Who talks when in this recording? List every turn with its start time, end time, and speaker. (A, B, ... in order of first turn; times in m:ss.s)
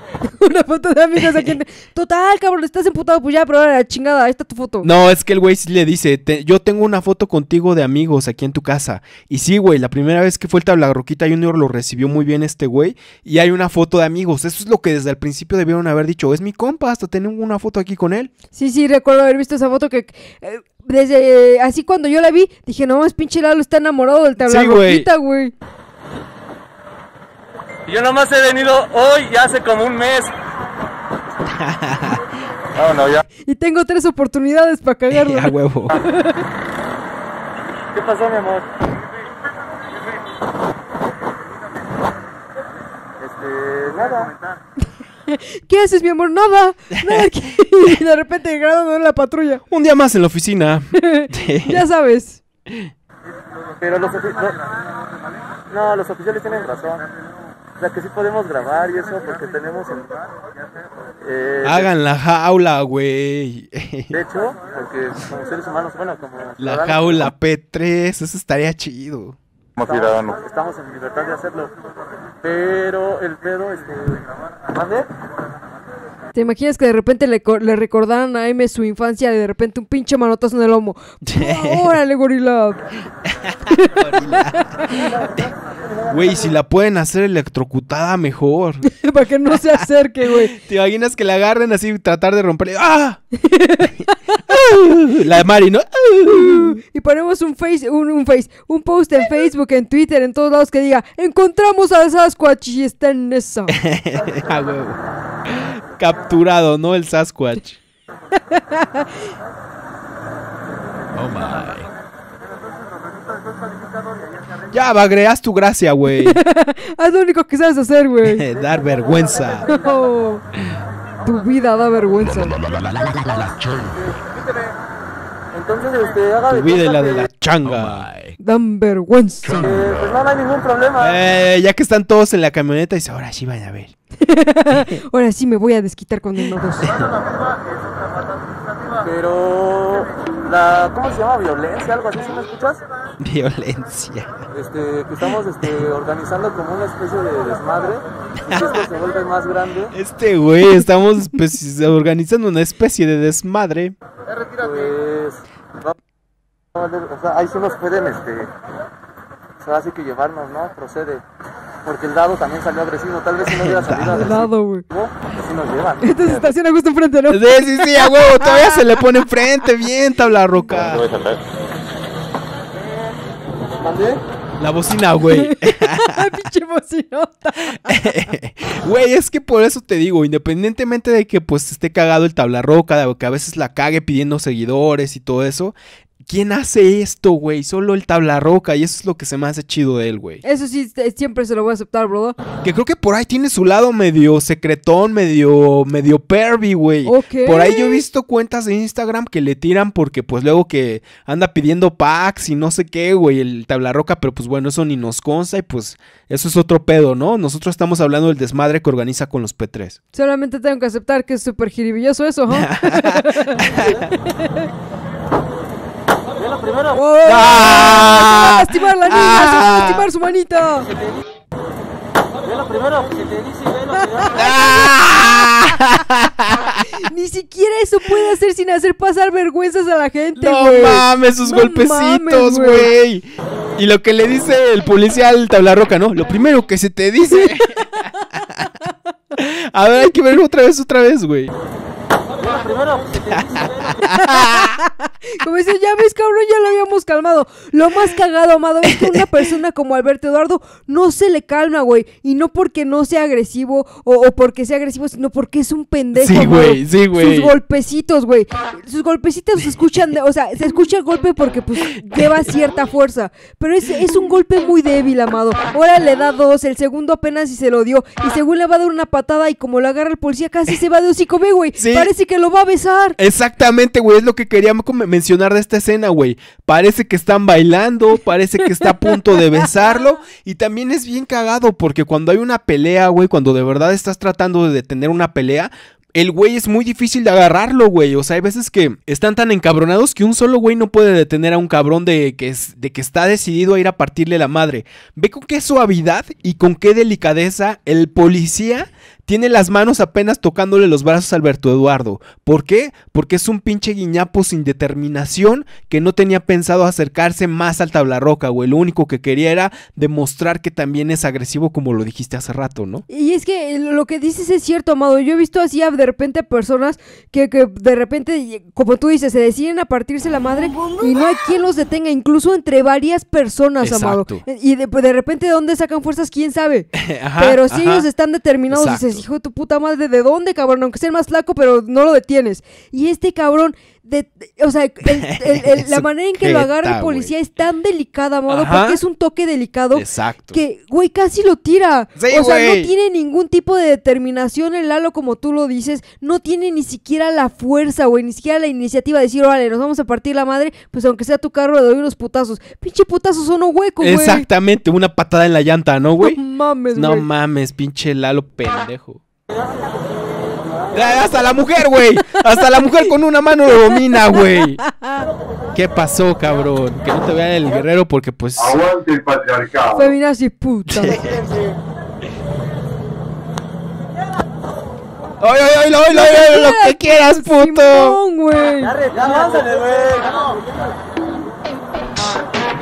0:00.2-0:04.9 A
0:01.2-0:01.5 B
0:04.8-0:18.3 B
0:18.5-0:25.5 A
0:24.4-0:25.1 B
0:27.8-0:30.3 C
0:31.4-0:32.2 B
0:32.8-0:33.2 D
0:33.5-0:36.4 A
0:35.1-0:36.0 B
0:37.9-0:38.7 C
0:43.2-0:44.4 C
0:45.3-0:49.6 A
0:49.7-0:51.8 B
0:51.0-0:52.4 A
0:53.8-0:54.7 C
0:55.7-0:57.1 C
0:57.8-1:00.2 C
1:01.2-1:01.9 C
1:01.6-1:04.2 B
1:04.1-1:07.3 C
1:06.6-1:09.4 B
1:09.8-1:10.4 D
1:09.8-1:11.7 C
1:12.4-1:15.1 C
1:16.3-1:22.9 A
1:21.2-1:21.9 B
1:23.3-1:25.5 B
1:23.7-1:25.0 A
1:26.1-1:28.9 B
1:28.9-1:30.5 A
1:29.5-1:33.2 B
1:33.4-1:34.0 A
1:34.5-1:36.8 B
1:36.3-1:43.8 A
1:43.8-1:45.0 B
1:45.5-1:47.8 B
1:48.5-1:49.1 A
1:51.2-1:51.9 B
1:54.7-1:56.4 B
1:56.1-1:58.5 A
1:58.2-1:59.7 B
1:59.6-2:00.4 A
2:01.2-2:02.6 A
2:02.9-2:03.6 B
2:05.5-2:07.3 C
2:06.5-2:08.3 B
2:08.4-2:09.6 A
2:09.4-2:09.8 B
2:09.6-2:11.2 C
2:11.0-2:13.9 B
2:14.2-2:17.0 A
2:19.0-2:22.8 C
2:23.2-2:24.4 B
2:24.5-2:29.9 C
2:28.5-2:28.8 B
2:29.9-2:33.9 B
2:34.5-2:35.9 C
2:36.7-2:38.5 C
2:39.6-2:41.2 C
2:41.8-2:46.5 C
2:43.5-2:44.3 B
2:44.1-2:44.8 A
2:46.0-2:48.8 A
2:47.3-2:51.0 B
2:50.7-2:51.4 D
2:53.8-2:54.2 C
2:54.6-2:56.3 B
2:55.3-2:58.0 A
2:57.8-3:10.4 B
3:10.4-3:12.4 A
3:12.6-3:30.0 B
3:17.0-3:18.0 A
3:30.1-3:34.5 A
3:32.5-3:34.0 B
3:36.9-3:40.9 A
3:37.2-3:40.1 B
3:42.5-3:44.2 C
3:44.0-3:44.6 A
3:44.3-3:46.8 B
3:46.9-3:52.9 A
3:50.4-3:58.0 B
3:57.3-3:57.9 A
3:59.4-4:01.5 B
4:02.4-4:03.9 C
4:04.0-4:33.2 A
4:04.0-4:04.8 B
4:08.8-4:09.2 B
4:16.1-4:17.5 B
4:31.8-4:32.1 B
4:33.2-5:13.0 B
5:13.1-5:54.5 A
5:23.8-5:24.4 B
5:26.9-5:28.0 B
5:28.7-5:29.2 B
5:35.1-5:37.3 B
5:38.5-5:39.0 B
5:39.9-5:40.6 B
5:42.2-5:42.9 B
5:54.0-5:56.4 B
5:56.2-5:57.3 A
5:56.9-5:59.2 B
6:00.9-6:04.8 B
6:04.1-6:05.2 A
6:05.7-6:08.8 B
6:08.6-6:10.1 D
6:09.9-6:11.2 A
6:10.9-6:11.4 B
6:15.4-6:18.2 B
6:16.1-6:19.0 A
6:18.9-6:20.6 C